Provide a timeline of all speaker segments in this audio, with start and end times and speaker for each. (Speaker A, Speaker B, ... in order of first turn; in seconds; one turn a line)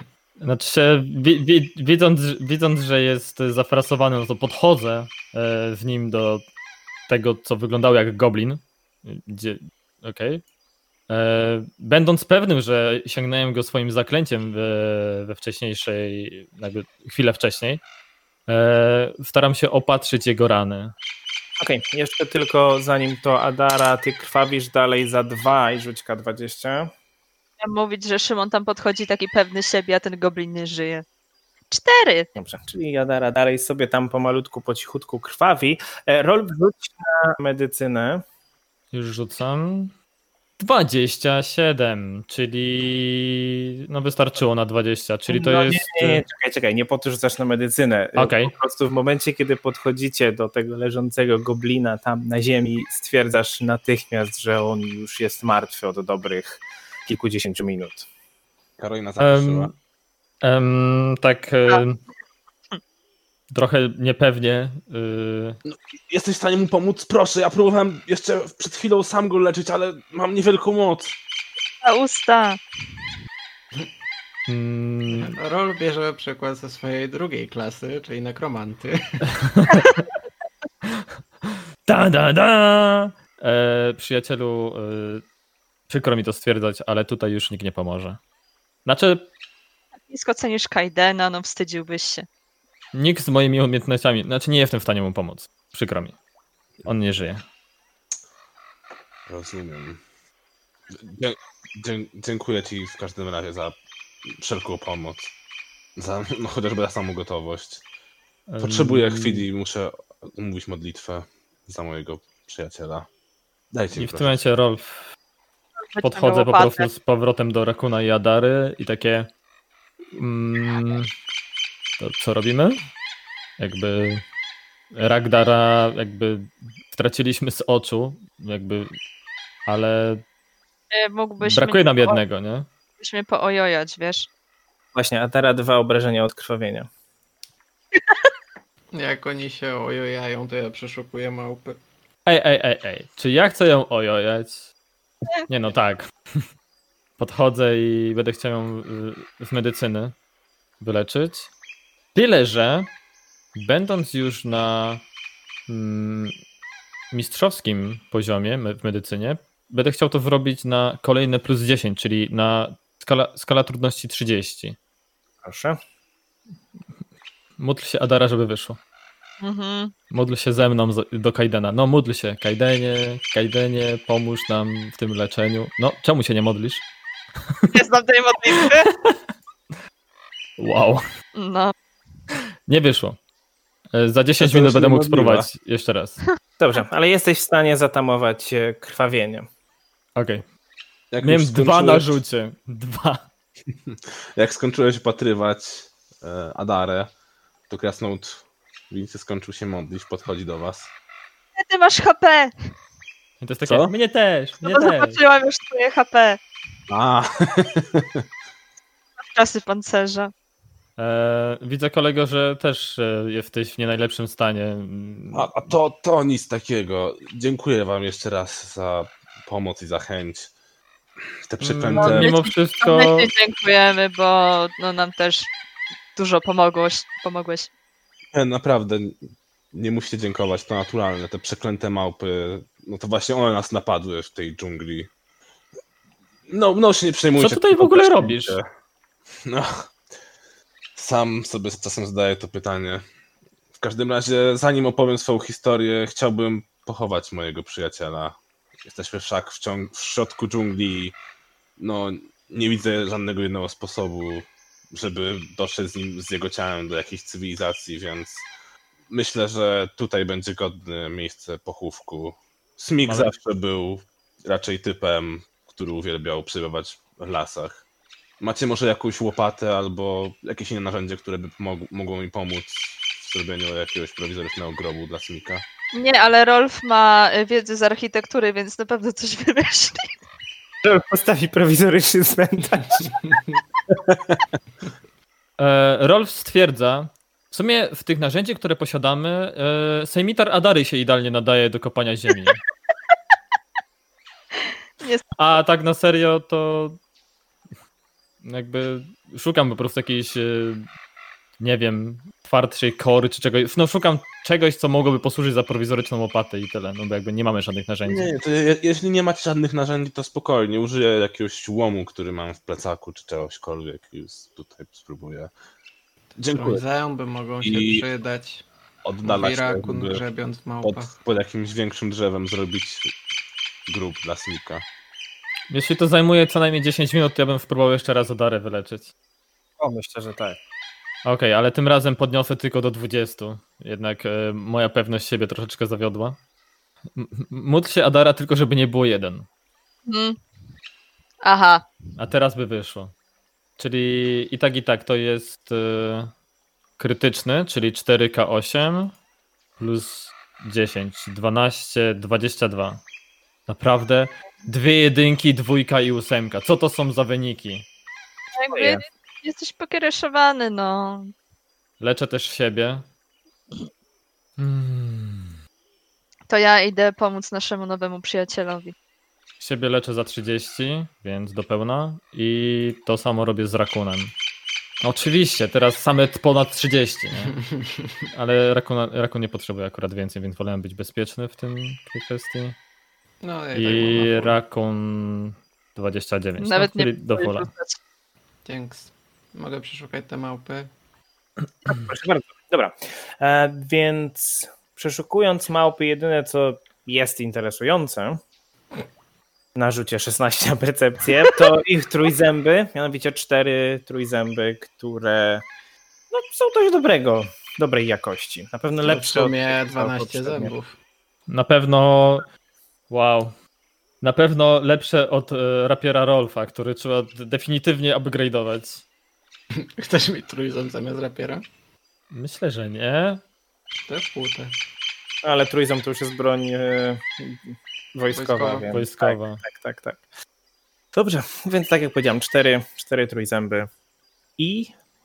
Speaker A: 0.4-6.4
Speaker A: 7.1-10.4
Speaker A: 11.1-17.8
Speaker A: 18.5-20.9
Speaker B: 21.6-26.9
Speaker C: 27.6-31.1
Speaker C: 31.7-32.3
Speaker B: 32.4-38.2
Speaker A: 38.9-39.9
Speaker A: 40.6-46.2
Speaker B: 45.3-58.1
Speaker A: 48.2-48.5
Speaker D: 58.8-59.7
Speaker A: 59.2-59.7
Speaker A: 60.4-62.0
Speaker A: 63.5-65.6
Speaker D: 65.7-71.2
Speaker C: 71.8-72.6
Speaker A: 74.5-75.4
Speaker E: 75.1-79.2
Speaker A: 79.3-80.0
Speaker C: 79.7-80.0
Speaker A: 80.9-85.2
Speaker A: 85.9-88.2
Speaker A: 88.8-89.3
Speaker C: 90.1-92.3
Speaker A: 92.9-96.2
Speaker A: 96.8-97.4
Speaker D: 99.3-100.0
Speaker D: 101.0-103.8
Speaker D: 104.3-105.3
Speaker D: 106.0-107.8
Speaker A: 108.5-109.5
Speaker D: 108.6-113.1
Speaker D: 113.7-114.4
Speaker A: 114.0-115.1
Speaker C: 115.9-116.9
Speaker A: 116.0-119.3
Speaker A: 120.1-121.1
Speaker A: 122.0-122.8
Speaker A: 123.6-124.2
Speaker A: 124.9-129.0
Speaker A: 129.7-130.2
Speaker C: 130.9-132.2
Speaker A: 131.4-132.7
Speaker C: 133.0-134.3
Speaker B: 134.9-136.9
Speaker E: 138.9-141.8
Speaker A: 142.3-144.7
Speaker A: 145.5-146.5
Speaker A: 147.2-150.2
Speaker A: 150.8-151.5
Speaker A: 152.2-152.9
Speaker A: 153.6-155.0
Speaker A: 155.7-156.4
Speaker A: 157.1-164.8
Speaker B: 165.4-165.8
Speaker A: 167.6-168.8
Speaker C: 169.4-169.9
Speaker A: 170.1-176.8
Speaker C: 177.7-178.9
Speaker A: 178.6-179.2
Speaker A: 180.6-181.0
Speaker C: 181.3-181.7
Speaker A: 182.7-183.2
Speaker A: 183.9-186.2
Speaker D: 184.4-185.5
Speaker B: 186.6-189.5
Speaker A: 190.2-190.4
Speaker D: 191.1-192.2
Speaker A: 191.2-193.3
Speaker D: 193.9-197.1
Speaker D: 197.7-200.9
Speaker C: 201.6-202.5
Speaker A: 203.4-205.2
Speaker D: 203.6-203.9
Speaker C: 204.6-206.4
Speaker D: 206.9-208.2
Speaker C: 209.2-210.3
Speaker A: 211.0-215.5
Speaker D: 215.3-220.5
Speaker D: 221.5-222.3
Speaker A: 221.6-223.3
Speaker C: 222.0-225.5
Speaker C: 226.2-227.7
Speaker D: 228.3-229.2
Speaker D: 229.7-235.1
Speaker D: 236.5-238.7
Speaker A: 237.4-238.6
Speaker D: 239.5-239.9
Speaker D: 241.0-243.0
Speaker D: 243.8-251.2
Speaker D: 251.8-258.5
Speaker D: 259.1-267.8
Speaker A: 263.0-263.4
Speaker D: 268.4-275.6
Speaker C: 275.9-280.2
Speaker B: 280.8-283.2
Speaker D: 284.0-284.4
Speaker A: 285.6-292.6
Speaker C: 295.0-295.5
Speaker A: 295.4-297.0
Speaker A: 298.4-300.9
Speaker A: 301.6-308.3
Speaker D: 308.1-315.5
Speaker D: 316.4-316.8
Speaker E: 316.5-318.6
Speaker D: 317.6-318.1
Speaker D: 319.1-320.2
Speaker E: 319.2-321.1
Speaker D: 320.8-323.1
Speaker D: 323.9-324.8
Speaker A: 325.7-329.1
Speaker B: 329.8-330.6
Speaker A: 331.2-336.4
Speaker A: 337.2-339.5
Speaker C: 340.1-340.4
Speaker C: 341.4-341.9
Speaker A: 342.2-343.1
Speaker A: 343.8-346.3
Speaker A: 347.0-349.1
Speaker A: 349.8-353.0
Speaker A: 353.7-357.9
Speaker C: 358.5-361.3
Speaker B: 358.7-359.0
Speaker A: 362.0-363.1
Speaker A: 364.6-365.5
Speaker C: 366.5-368.9
Speaker A: 369.6-374.3
Speaker A: 375.0-377.6
Speaker A: 378.3-382.8
Speaker E: 383.4-384.6
Speaker A: 383.7-387.7
Speaker C: 386.6-388.0
Speaker E: 388.6-390.9
Speaker B: 391.9-398.4
Speaker B: 399.8-405.7
Speaker B: 406.3-410.7
Speaker E: 409.0-411.0
Speaker A: 411.5-412.5
Speaker A: 413.1-413.5
Speaker A: 414.2-419.0
Speaker E: 419.8-421.6
Speaker A: 422.3-423.4
Speaker E: 424.1-424.8
Speaker B: 425.4-430.2
Speaker E: 428.3-428.9
Speaker A: 428.9-429.6
Speaker B: 431.1-433.9
Speaker B: 434.6-434.9